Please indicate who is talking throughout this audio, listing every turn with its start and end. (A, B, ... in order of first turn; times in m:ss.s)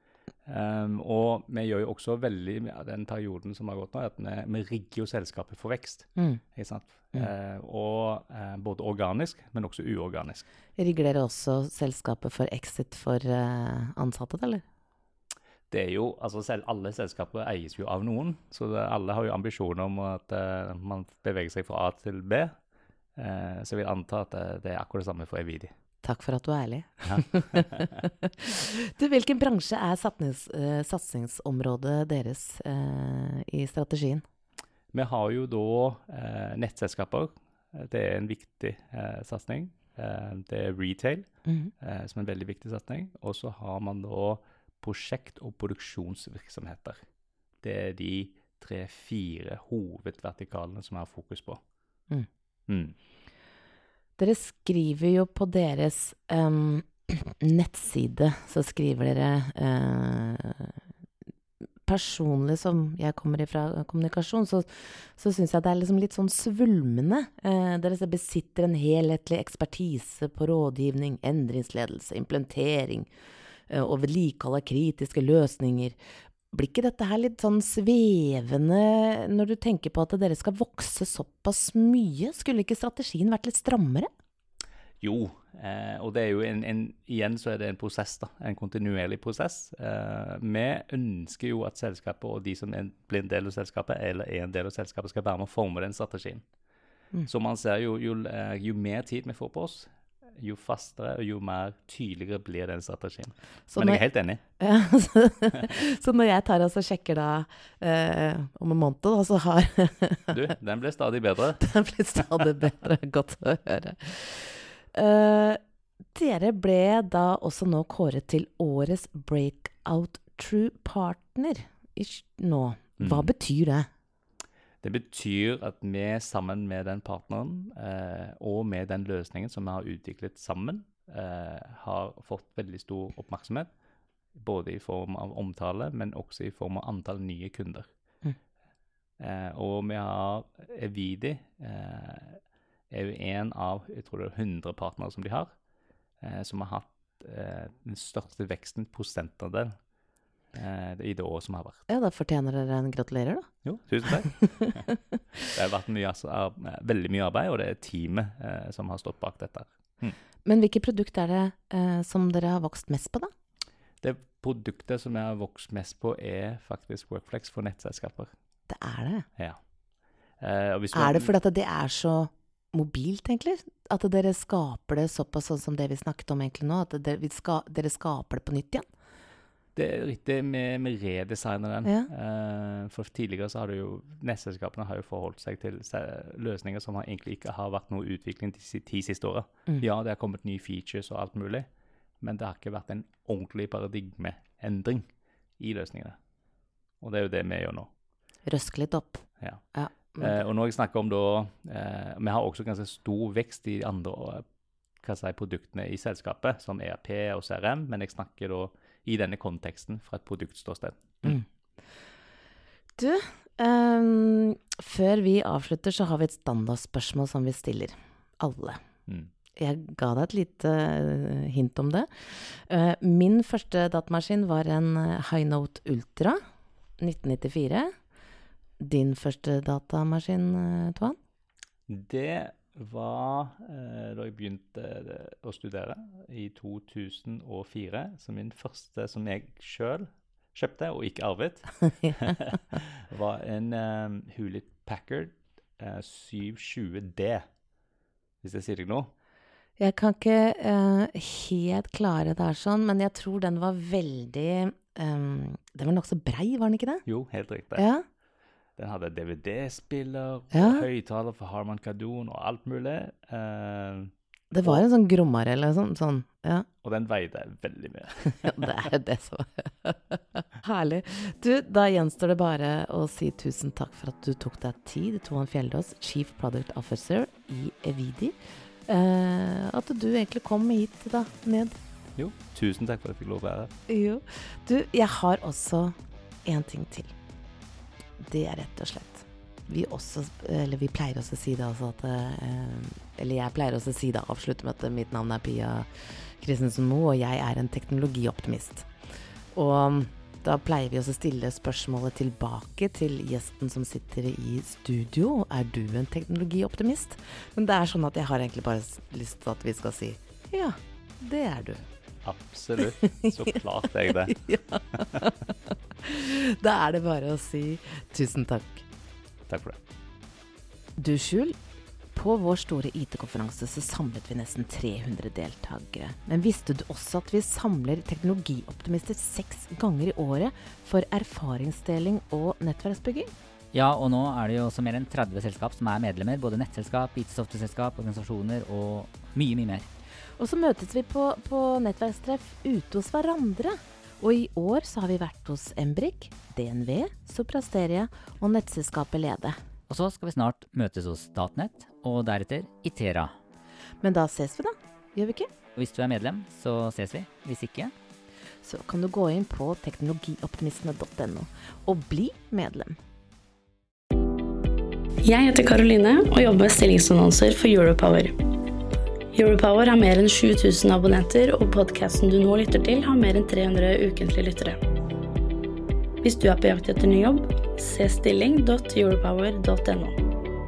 0:00.4-0:10.4 A
0:10.8-0:14.6 B
0:15.7-0:22.6 A
0:23.2-0:25.7 A
0:26.0-0:34.2 B
0:27.0-0:27.9 A
0:34.9-0:41.3 A
0:41.4-0:41.7 B
0:41.8-0:47.0 A
0:47.6-0:51.6 A
0:52.7-0:52.9 A
0:54.2-1:00.8 B
1:01.8-1:13.1 B
1:13.7-1:16.0 B
1:16.5-1:24.1 B
1:25.0-1:36.4 A
1:37.2-1:44.4 A
1:43.7-1:44.0 B
1:44.6-1:50.4 B
1:50.3-1:51.6 A
1:51.6-1:55.6 B
1:56.1-2:03.9 B
2:03.0-2:03.3 A
2:04.8-2:13.7 A
2:14.3-2:17.9 A
2:19.2-2:25.5 A
2:26.2-2:29.7 A
2:30.5-2:31.8 A
2:31.9-2:33.5 B
2:33.6-2:34.8 A
2:34.3-2:34.9 B
2:35.5-2:40.2 A
2:40.4-2:43.3 B
2:44.0-2:48.3 A
2:48.7-2:49.3 B
2:50.4-2:51.3 A
2:50.9-2:58.8 B
2:59.7-3:11.7 A
3:12.2-3:15.0 A
3:15.6-3:16.2 A
3:17.0-3:17.9 A
3:18.4-3:20.4 B
3:20.2-3:24.4 A
3:25.0-3:31.4 A
3:33.0-3:38.8 B
3:39.6-3:46.4 B
3:47.0-3:47.9 B
3:48.8-3:51.2 B
3:51.9-4:07.5 A
4:08.4-4:09.1 A
4:09.8-4:17.0 B
4:17.0-4:17.9 A
4:17.8-4:18.0 B
4:18.8-4:24.1 A
4:20.5-4:20.8 B
4:24.5-4:26.7 B
4:26.8-4:28.6 A
4:28.3-4:38.4 B
4:38.9-4:41.8 B
4:42.2-4:43.7 A
4:43.9-4:47.1 B
4:48.2-4:58.9 B
4:59.5-5:11.8 B
5:12.2-5:14.4 A
5:14.1-5:15.5 B
5:16.0-5:18.8 B
5:19.5-5:19.8 A
5:21.0-5:21.6 B
5:22.1-5:33.3 B
5:33.7-5:39.8 C
5:40.4-5:49.6 B
5:49.9-5:53.3 C
5:54.0-5:55.5 B
5:55.8-5:57.9 C
5:58.6-6:03.0 B
6:05.2-6:08.4 D
6:09.3-6:14.8 D
6:16.2-6:20.2 D